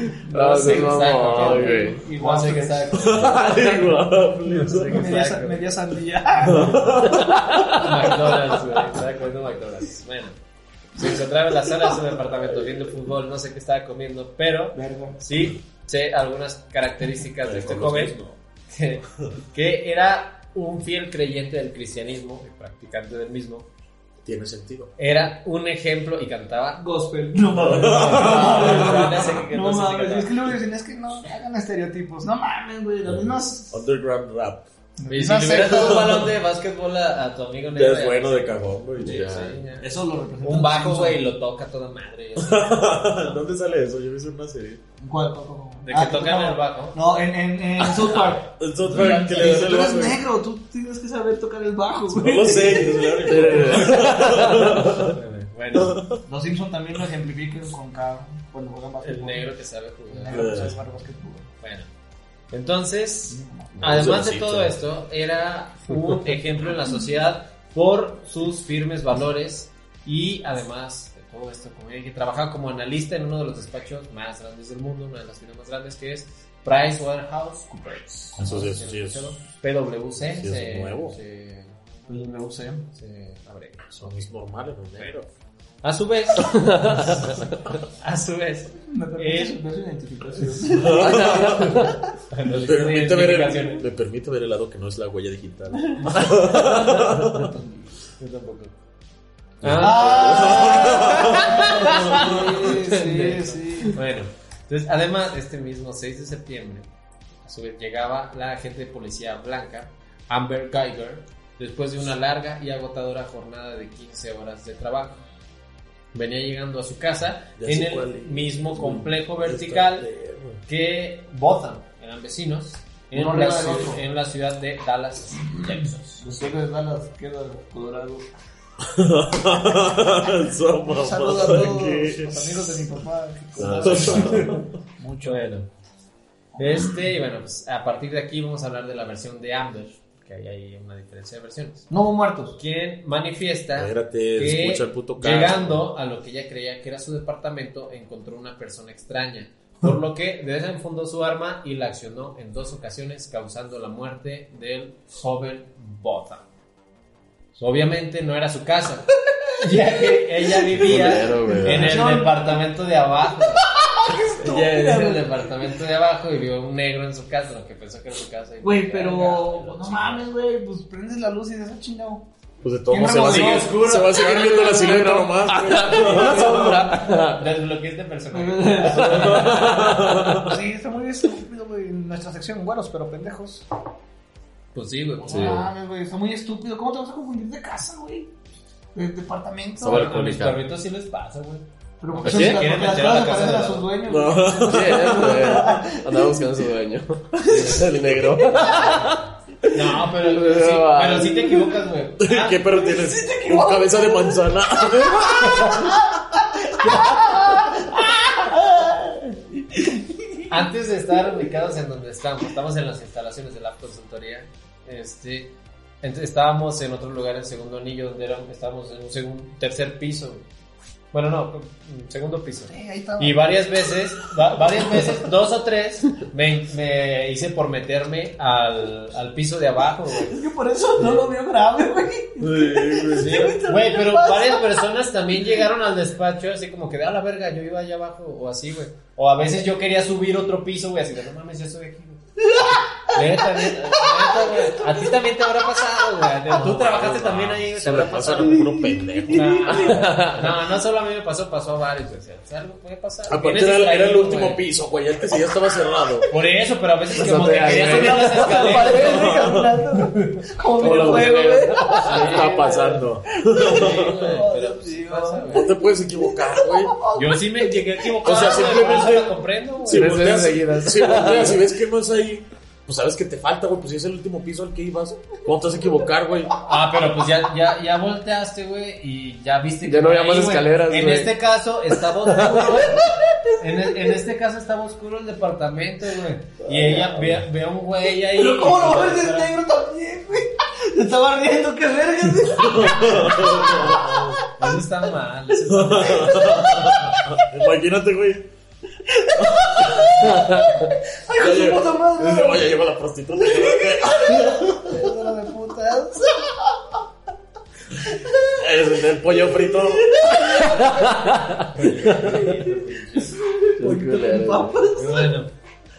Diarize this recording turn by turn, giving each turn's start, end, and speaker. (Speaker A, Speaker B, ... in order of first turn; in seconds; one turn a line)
Speaker A: 0.2-2.3
Speaker B: 0.2-3.0
Speaker C: 0.5-3.6
Speaker D: 2.9-5.3
Speaker B: 3.5-4.0
Speaker C: 4.5-5.7
Speaker B: 4.9-7.1
Speaker D: 6.5-7.4
Speaker A: 7.2-7.9
Speaker C: 7.8-10.4
Speaker C: 11.0-18.2
Speaker B: 14.7-15.2
Speaker D: 17.4-18.3
Speaker C: 18.7-23.7
Speaker D: 24.2-24.9
Speaker C: 25.0-26.8
Speaker B: 26.8-33.9
Speaker D: 27.6-29.2
Speaker C: 27.8-30.5
Speaker D: 33.7-34.7
Speaker B: 35.0-36.3
Speaker C: 35.1-39.9
Speaker D: 35.6-36.2
Speaker D: 37.7-39.2
Speaker A: 39.0-39.6
Speaker B: 39.8-41.2
Speaker C: 40.4-43.4
Speaker D: 42.4-44.8
Speaker B: 45.0-53.5
Speaker C: 45.9-47.0
Speaker D: 48.4-50.2
Speaker D: 52.1-55.2
Speaker A: 53.2-54.8
Speaker C: 53.8-56.0
Speaker D: 55.7-56.2
Speaker B: 56.3-59.5
Speaker C: 59.0-60.5
Speaker B: 60.1-61.5
Speaker D: 60.3-60.8
Speaker C: 61.6-61.9
Speaker C: 62.5-82.3
Speaker B: 63.3-64.1
Speaker D: 63.8-64.7
Speaker B: 77.7-78.4
Speaker D: 78.4-79.3
Speaker D: 80.3-81.2
Speaker B: 82.1-82.9
Speaker C: 82.9-84.3
Speaker D: 84.0-85.3
Speaker C: 85.8-89.6
Speaker A: 86.8-87.2
Speaker B: 88.9-91.5
Speaker D: 90.8-91.9
Speaker A: 91.0-92.0
Speaker C: 91.2-93.8
Speaker D: 92.6-97.5
Speaker B: 95.7-96.3
Speaker B: 96.9-97.9
Speaker C: 98.2-98.7
Speaker D: 99.6-102.6
Speaker C: 99.6-106.9
Speaker B: 99.8-104.0
Speaker A: 100.0-101.1
Speaker A: 103.3-103.8
Speaker C: 107.5-115.2
Speaker C: 116.1-120.1
Speaker D: 117.6-120.6
Speaker C: 120.7-126.3
Speaker B: 123.1-124.0
Speaker B: 126.2-128.3
Speaker D: 128.8-132.8
Speaker B: 130.8-135.5
Speaker A: 133.6-134.5
Speaker D: 133.8-134.7
Speaker C: 134.2-134.6
Speaker C: 135.2-135.7
Speaker B: 136.6-136.9
Speaker C: 136.6-141.9
Speaker B: 141.9-142.6
Speaker C: 142.6-156.5
Speaker D: 143.8-145.8
Speaker C: 157.6-163.7
Speaker A: 160.7-162.0
Speaker B: 160.8-162.6
Speaker B: 163.6-165.4
Speaker C: 164.4-170.3
Speaker B: 168.6-172.3
Speaker D: 172.6-177.4
Speaker B: 172.9-177.1
Speaker C: 173.2-173.7
Speaker A: 175.6-177.0
Speaker C: 177.0-179.9
Speaker B: 178.3-179.8
Speaker A: 178.7-180.4
Speaker D: 179.1-180.6
Speaker B: 180.4-183.7
Speaker C: 184.7-185.6
Speaker B: 185.2-188.3
Speaker A: 185.3-185.7
Speaker B: 188.9-190.1
Speaker A: 189.8-190.6
Speaker C: 189.9-193.9
Speaker B: 192.0-196.5
Speaker A: 192.2-192.7
Speaker D: 194.1-195.4
Speaker A: 194.7-199.2
Speaker B: 197.4-199.1
Speaker C: 197.5-197.8
Speaker D: 197.6-198.3
Speaker C: 199.0-202.6
Speaker A: 199.9-201.6
Speaker D: 202.2-206.0
Speaker B: 202.7-210.6
Speaker C: 210.5-220.4
Speaker C: 221.1-230.4
Speaker B: 222.7-223.6
Speaker B: 224.6-225.2
Speaker B: 230.2-234.8
Speaker C: 231.0-231.3
Speaker D: 232.4-233.4
Speaker C: 233.2-248.7
Speaker B: 242.6-245.0
Speaker D: 246.5-249.9
Speaker B: 248.5-250.0
Speaker C: 249.3-254.6
Speaker A: 249.7-250.5
Speaker D: 253.3-256.3
Speaker C: 256.3-259.4
Speaker A: 257.2-258.8
Speaker B: 257.6-269.0
Speaker D: 258.9-259.7
Speaker C: 260.0-260.4
Speaker A: 260.8-262.7
Speaker C: 262.0-262.6
Speaker D: 262.2-264.4
Speaker C: 263.6-265.7
Speaker D: 265.5-267.0
Speaker C: 267.1-270.2
Speaker D: 268.2-269.3
Speaker D: 269.9-276.5
Speaker A: 269.9-271.6
Speaker C: 276.6-283.1
Speaker A: 279.9-281.3
Speaker A: 282.4-282.9
Speaker B: 282.9-284.2
Speaker C: 283.6-289.6
Speaker B: 288.4-294.4
Speaker D: 292.6-294.4
Speaker C: 294.6-296.7
Speaker D: 295.7-298.5
Speaker B: 296.7-297.4
Speaker B: 299.1-302.8
Speaker D: 299.5-300.4
Speaker A: 300.4-300.7
Speaker D: 301.4-304.9
Speaker B: 303.4-306.6
Speaker B: 308.1-308.5
Speaker D: 308.6-310.8
Speaker B: 309.4-311.1
Speaker A: 310.8-311.5
Speaker C: 311.6-313.4
Speaker B: 313.1-315.3
Speaker A: 313.8-314.8
Speaker C: 315.0-315.5